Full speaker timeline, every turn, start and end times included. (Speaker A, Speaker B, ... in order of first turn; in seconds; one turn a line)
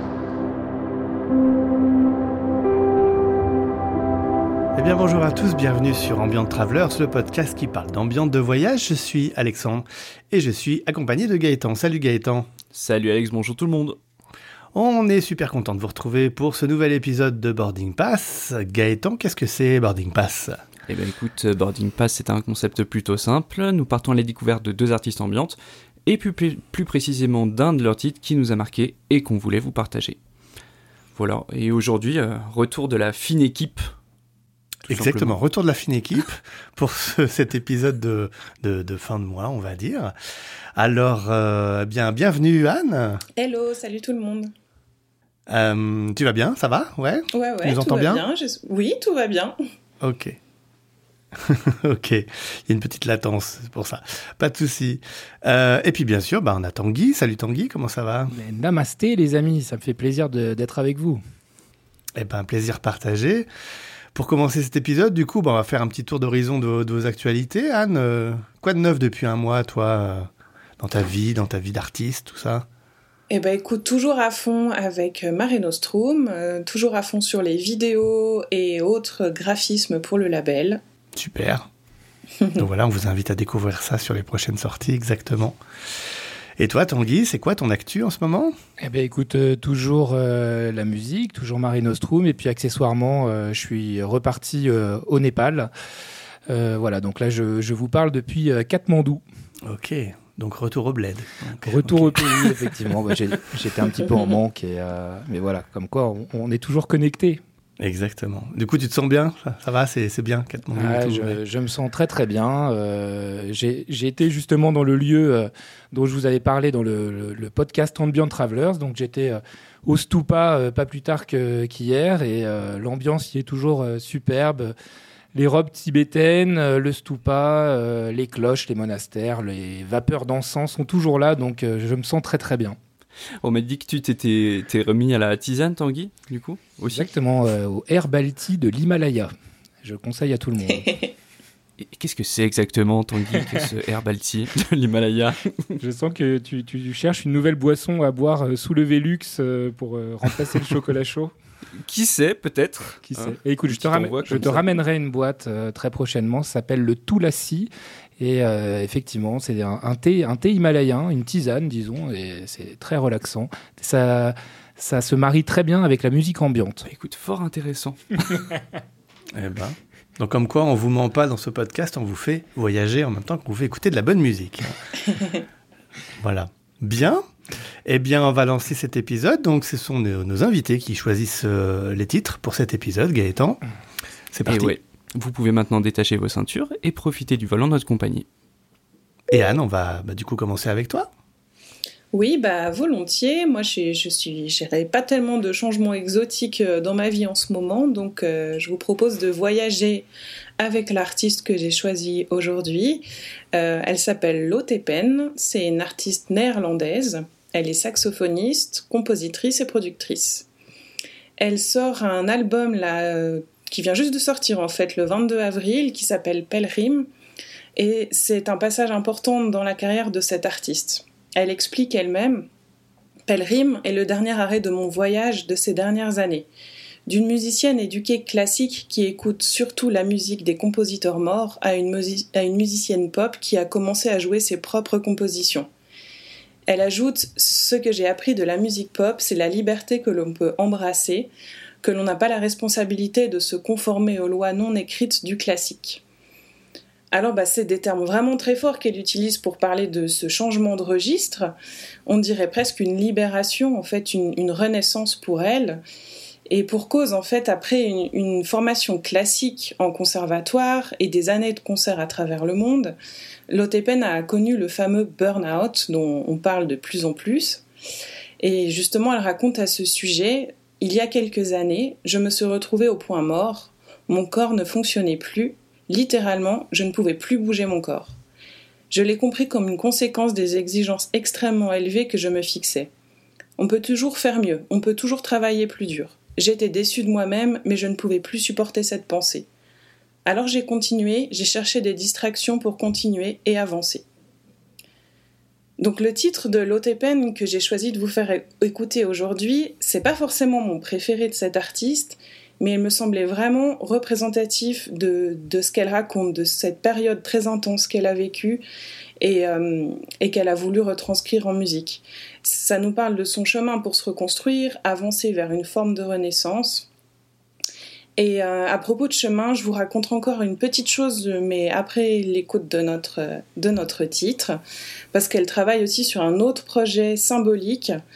Speaker A: 4.7-12.5
Speaker B: 12.7-14.0
Speaker A: 14.7-20.6
Speaker B: 20.9-30.2
Speaker B: 31.1-33.8
Speaker B: 34.8-35.4
Speaker A: 34.9-40.1
Speaker A: 40.7-43.2
Speaker C: 43.4-44.5
Speaker A: 45.5-48.2
Speaker C: 47.3-49.5
Speaker A: 50.0-50.4
Speaker A: 51.3-58.3
Speaker D: 58.3-61.2
Speaker A: 62.1-63.5
Speaker A: 64.1-72.7
Speaker C: 73.3-80.8
Speaker A: 81.2-81.7
Speaker A: 82.5-85.6
Speaker A: 86.6-88.5
Speaker D: 88.8-95.7
Speaker D: 96.5-99.2
Speaker A: 99.6-102.5
Speaker D: 101.6-107.4
Speaker A: 107.8-111.4
Speaker D: 110.8-124.7
Speaker D: 125.3-132.8
Speaker B: 133.4-137.1
Speaker D: 136.9-139.3
Speaker D: 139.8-141.0
Speaker B: 141.8-145.8
Speaker D: 145.8-151.3
Speaker B: 151.8-154.7
Speaker D: 153.1-166.9
Speaker B: 166.9-168.5
Speaker A: 169.3-175.4
Speaker A: 176.2-177.2
Speaker A: 177.8-183.6
Speaker A: 184.3-184.7
Speaker B: 184.4-188.2
Speaker A: 189.3-191.1
Speaker C: 192.1-200.1
Speaker C: 200.6-210.5
Speaker C: 211.4-217.1
Speaker C: 217.8-222.5
Speaker C: 223.3-226.5
Speaker C: 227.1-235.7
Speaker C: 236.7-241.3
Speaker C: 241.8-246.0
Speaker C: 247.1-251.5
Speaker C: 252.1-255.8
Speaker C: 256.5-262.9
Speaker C: 263.5-267.6
Speaker C: 268.4-278.1
Speaker C: 278.9-282.9
Speaker C: 283.6-289.5
Speaker C: 290.2-294.0
Speaker C: 295.8-308.6
Speaker C: 309.2-316.9
Speaker C: 318.2-324.6
Speaker C: 325.1-328.0